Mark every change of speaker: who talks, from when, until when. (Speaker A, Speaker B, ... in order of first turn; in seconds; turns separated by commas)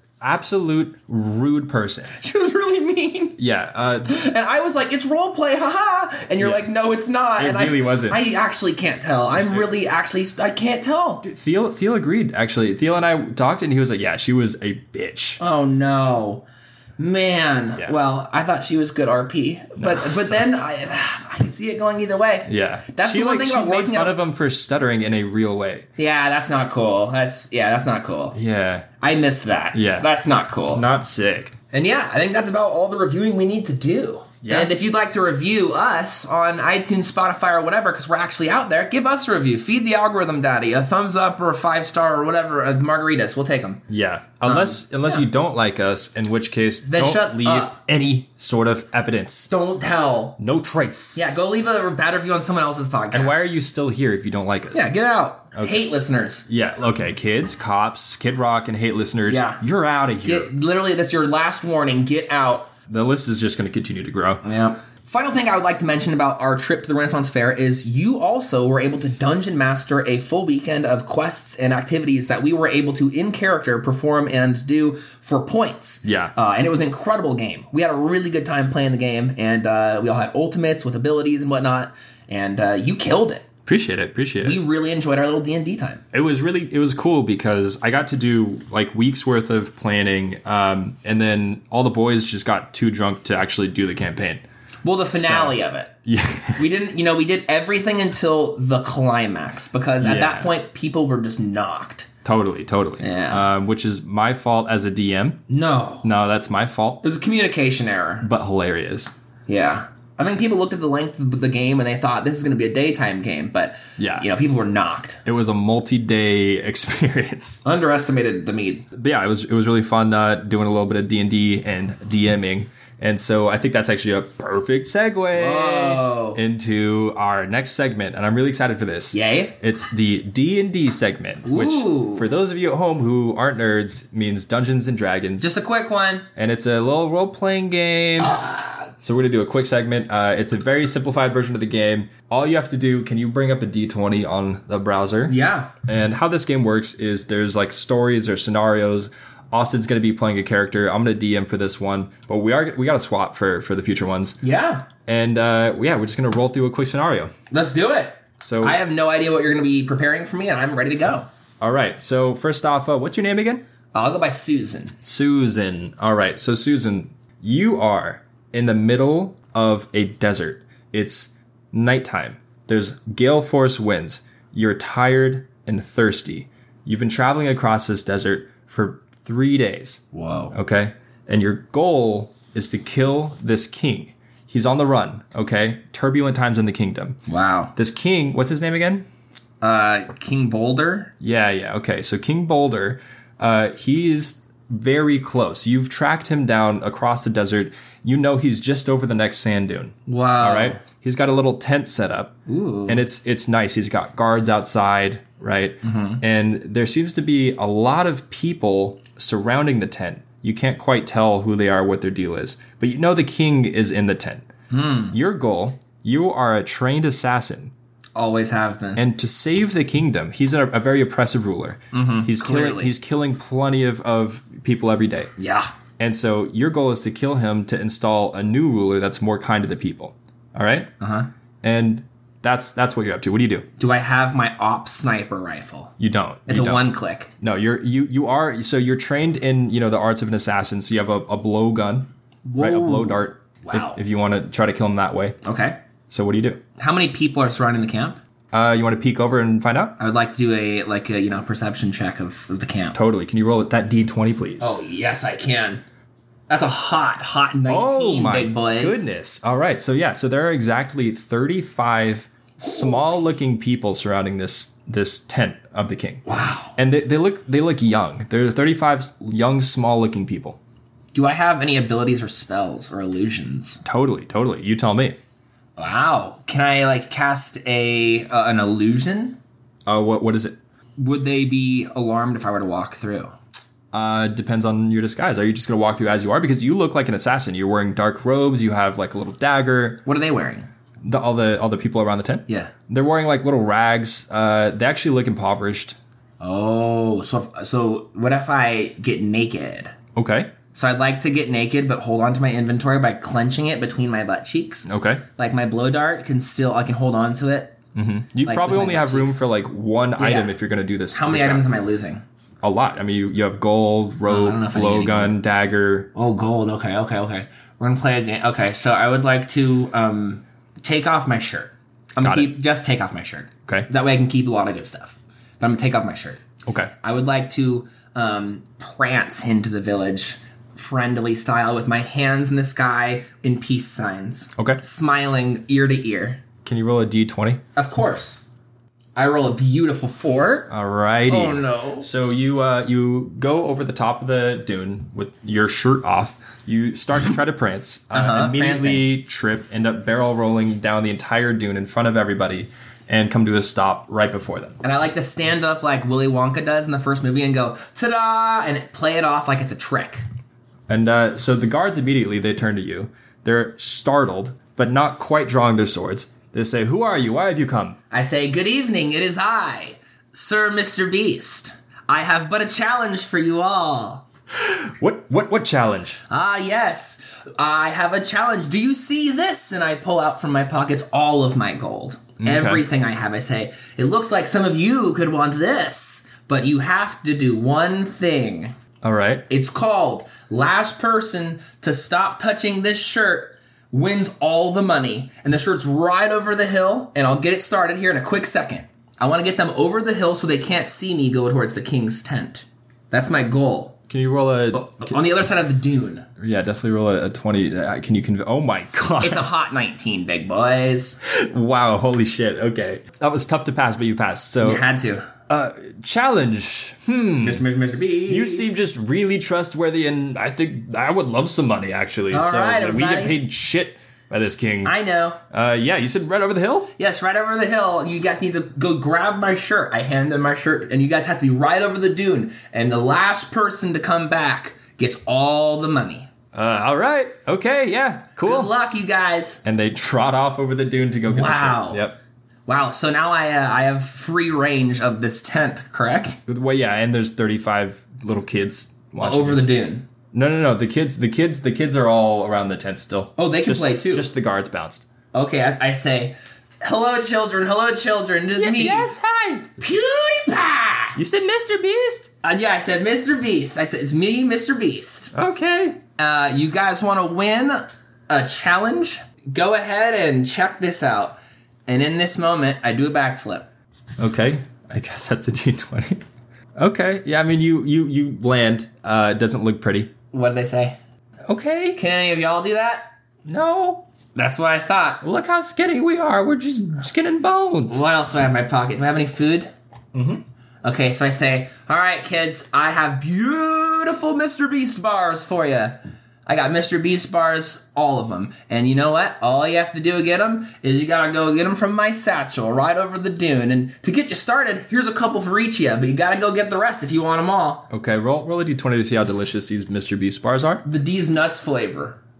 Speaker A: 0.2-2.1, Speaker B: 2.1-3.4, Speaker A: 3.4-4.2, Speaker B: 4.0-11.2, Speaker A: 6.4-6.7, Speaker A: 7.4-8.2, Speaker A: 9.3-9.7, Speaker A: 11.2-15.4, Speaker B: 15.4-16.4, Speaker B: 17.0-24.1, Speaker A: 19.8-20.4, Speaker A: 22.5-25.9, Speaker B: 26.0-28.4, Speaker A: 28.3-28.9, Speaker B: 29.0-30.8, Speaker A: 29.7-30.1, Speaker A: 30.7-31.5, Speaker B: 31.7-43.8, Speaker A: 34.4-34.7, Speaker A: 43.9-49.5, Speaker B: 44.4-45.2, Speaker B: 46.8-47.7, Speaker B: 49.5-50.4, Speaker A: 50.4-51.6, Speaker B: 51.1-53.5, Speaker A: 53.1-54.9, Speaker B: 54.7-56.5, Speaker A: 55.5-55.8, Speaker A: 56.5-60.5, Speaker B: 59.3-59.6, Speaker B: 60.2-62.7, Speaker A: 62.9-64.4, Speaker B: 64.4-83.5, Speaker A: 76.0-76.3, Speaker A: 83.7-84.6, Speaker B: 84.4-86.0, Speaker A: 86.1-94.4, Speaker B: 94.8-95.9, Speaker A: 95.1-96.7, Speaker B: 96.5-102.1, Speaker A: 100.0-100.5, Speaker A: 102.2-105.4, Speaker B: 103.0-103.5, Speaker B: 105.5-106.1, Speaker A: 106.0-107.0, Speaker B: 107.0-108.3, Speaker A: 108.2-109.1, Speaker B: 109.5-115.2, Speaker A: 114.0-114.3, Speaker A: 115.2-117.6, Speaker B: 117.6-118.9, Speaker A: 118.9-135.5, Speaker B: 125.3-126.4, Speaker B: 129.1-129.5, Speaker B: 131.4-132.3, Speaker B: 135.4-136.2, Speaker A: 136.3-138.4, Speaker B: 138.2-138.9, Speaker A: 139.0-154.4, Speaker B: 145.3-145.7, Speaker B: 154.4-154.9, Speaker A: 155.1-157.3, Speaker B: 157.5-161.3, Speaker A: 158.4-158.8, Speaker A: 161.6-163.6, Speaker B: 163.9-164.9, Speaker A: 165.0-187.2, Speaker B: 180.1-180.5, Speaker B: 187.3-187.7, Speaker A: 187.8-189.1, Speaker B: 189.6-191.1, Speaker A: 191.2-214.5, Speaker B: 200.1-200.8, Speaker B: 202.5-203.0, Speaker B: 205.8-206.2, Speaker B: 214.7-215.1, Speaker A: 215.1-217.7, Speaker B: 218.1-219.0, Speaker A: 218.9-225.3, Speaker B: 221.9-222.9, Speaker B: 225.4-225.7, Speaker A: 226.0-230.9, Speaker B: 231.0-231.3, Speaker A: 231.6-233.7, Speaker B: 233.8-235.9, Speaker A: 236.0-236.9, Speaker B: 236.5-237.3, Speaker A: 237.4-245.4, Speaker B: 242.4-244.0, Speaker B: 245.4-245.8, Speaker A: 246.1-246.6, Speaker B: 246.8-248.2, Speaker A: 248.5-250.0, Speaker B: 250.0-253.0, Speaker A: 252.9-254.8, Speaker B: 254.6-255.8, Speaker B: 256.5-259.1, Speaker A: 257.7-266.2, Speaker B: 262.6-262.9, Speaker B: 266.2-266.8, Speaker A: 266.8-270.6, Speaker B: 271.1-273.8, Speaker A: 273.8-275.1, Speaker B: 275.8-279.4, Speaker A: 279.9-280.6, Speaker B: 281.0-283.3, Speaker A: 283.9-290.0, Speaker B: 290.0-290.7, Speaker A: 291.0-296.0, Speaker B: 292.5-292.7, Speaker B: 296.4-299.9, Speaker A: 300.1-300.5, Speaker B: 300.7-307.7, Speaker A: 304.9-305.2, Speaker A: 307.9-311.7, Speaker B: 308.4-309.4, Speaker B: 310.2-310.5, Speaker B: 311.1-312.2, Speaker A: 312.6-316.1, Speaker B: 314.3-315.3, Speaker B: 316.1-326.4, Speaker A: 322.2-322.5, Speaker A: 326.6-326.9, Speaker B: 327.0-336.4, Speaker A: 336.6-337.6, Speaker B: 337.8-338.4, Speaker B: 339.1-340.7, Speaker A: 340.7-354.8, Speaker B: 341.3-342.1, Speaker B: 348.1-349.0, Speaker B: 354.8-360.2, Speaker A: 360.9-368.0, Speaker B: 368.1-374.2, Speaker A: 374.5-376.2, Speaker B: 376.3-388.7, Speaker A: 382.4-382.8, Speaker A: 389.0-389.4, Speaker B: 389.5-404.0, Speaker A: 404.1-405.2, Speaker B: 404.7-406.2, Speaker A: 406.4-409.5, Speaker B: 409.2-411.2, Speaker A: 411.2-414.8, Speaker B: 414.6-415.3, Speaker A: 415.5-417.6, Speaker B: 417.4-418.7, Speaker A: 418.3-424.9, Speaker B: 422.3-423.4, Speaker B: 424.8-425.4, Speaker A: 425.5-426.9, Speaker B: 427.0-436.3, Speaker A: 436.5-438.7, Speaker B: 438.4-439.6, Speaker A: 439.6-442.1, Speaker B: 441.3-442.0, Speaker B: 442.7-446.4, Speaker A: 446.5-449.6, Speaker B: 449.2-450.1, Speaker A: 450.3-455.1, Speaker B: 453.4-454.3, Speaker B: 455.3-459.1, Speaker A: 458.6-459.7, Speaker B: 459.8-461.2, Speaker A: 461.1-462.3, Speaker B: 462.4-465.3, Speaker A: 465.3-466.0, Speaker B: 466.2-473.7, Speaker A: 474.2-476.2, Speaker A: 476.8-480.1, Speaker B: 480.3-481.0, Speaker A: 481.5-482.0, Speaker B: 481.9-483.1, Speaker A: 483.4-484.1, Speaker B: 484.3-485.2, Speaker A: 485.2-488.0, Speaker B: 487.9-489.7, Speaker B: 490.8-507.9, Speaker A: 507.9-510.8, Speaker B: 510.8-512.2